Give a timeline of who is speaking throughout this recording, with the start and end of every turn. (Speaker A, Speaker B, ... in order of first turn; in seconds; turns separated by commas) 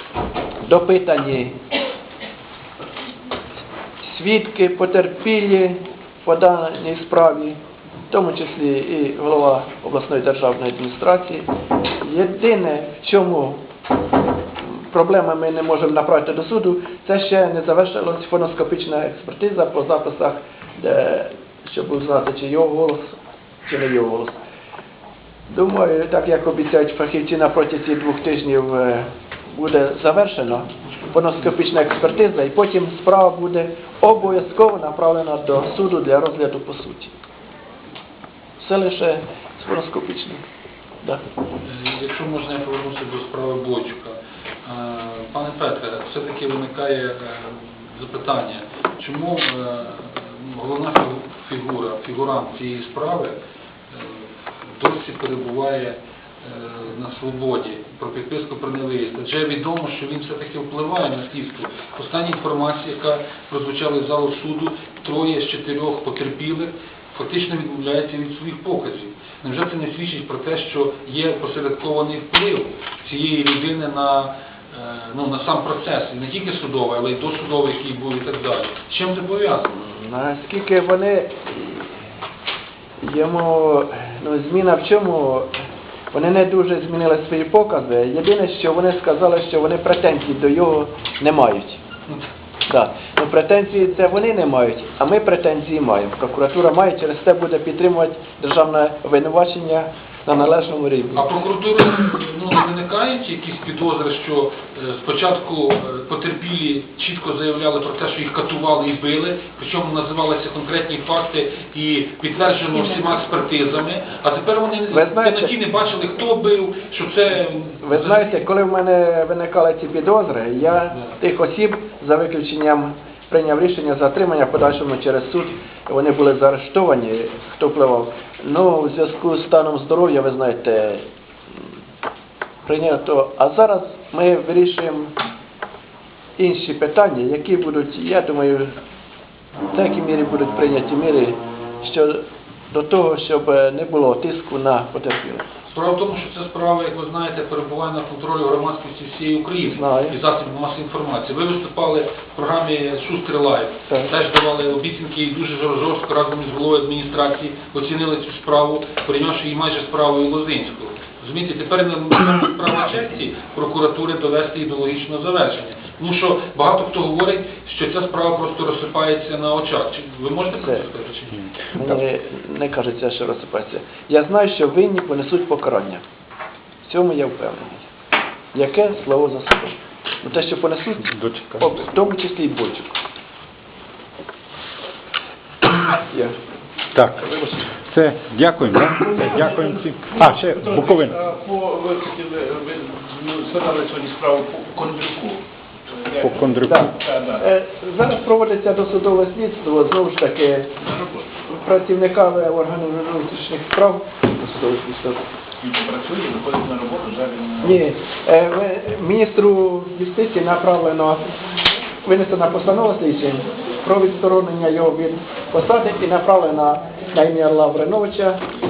Speaker A: 0.6-1.6, Speaker A: 4.0-7.6, Speaker A: 8.1-11.5, Speaker A: 12.0-13.6, Speaker A: 14.7-23.0, Speaker A: 23.6-24.3, Speaker A: 25.5-37.1, Speaker A: 38.6-40.4, Speaker B: 41.6-53.3, Speaker B: 53.9-79.7, Speaker A: 79.7-81.9, Speaker A: 83.0-85.5, Speaker A: 86.1-91.8, Speaker A: 92.7-101.3, Speaker B: 101.1-118.4, Speaker A: 114.9-115.5, Speaker A: 117.8-131.1, Speaker A: 132.7-135.1, Speaker A: 136.4-138.7, Speaker A: 139.7-145.4, Speaker B: 145.7-171.6, Speaker A: 149.7-150.2, Speaker A: 171.7-176.0, Speaker A: 176.8-177.9, Speaker A: 178.5-183.0, Speaker C: 181.2-181.7, Speaker A: 185.9-186.3, Speaker C: 186.9-187.3, Speaker C: 187.9-191.2, Speaker D: 189.3-189.7, Speaker D: 190.4-195.4, Speaker D: 196.0-197.4, Speaker C: 196.2-196.9, Speaker A: 196.7-200.7, Speaker A: 201.4-205.2, Speaker D: 205.6-207.7, Speaker A: 207.6-211.2, Speaker A: 212.0-218.4